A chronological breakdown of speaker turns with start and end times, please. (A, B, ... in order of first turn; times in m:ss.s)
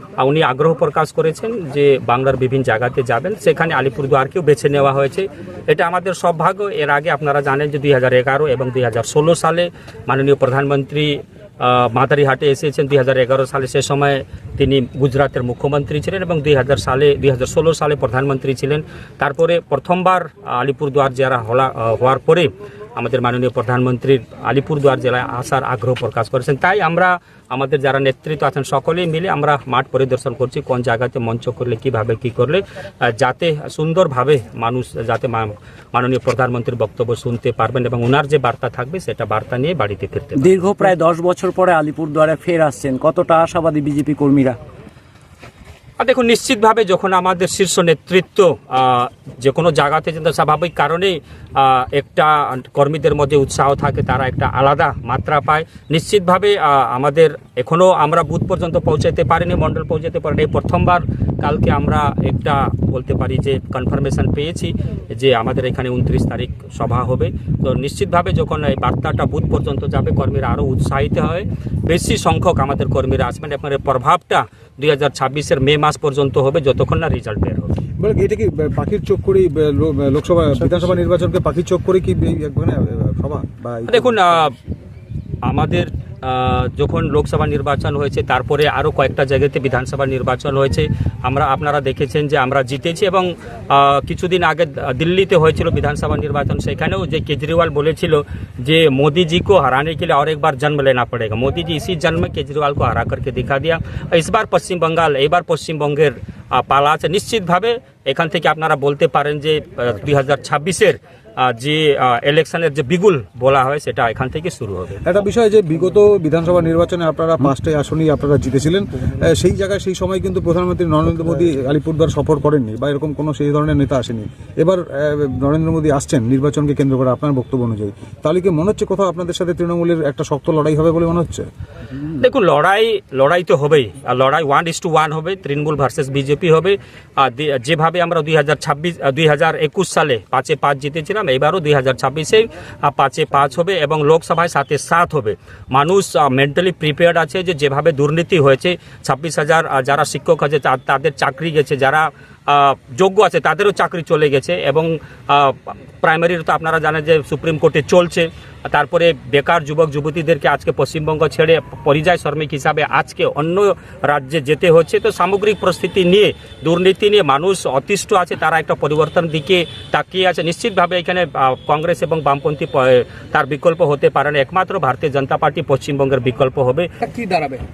0:00.2-0:40.9 A
0:40.4-0:44.6 B
0:46.0-1:17.7 A
1:18.0-1:24.4 C
1:23.9-1:24.5 A
1:25.5-1:55.0 A
1:55.0-2:11.4 C
2:12.2-2:56.9 A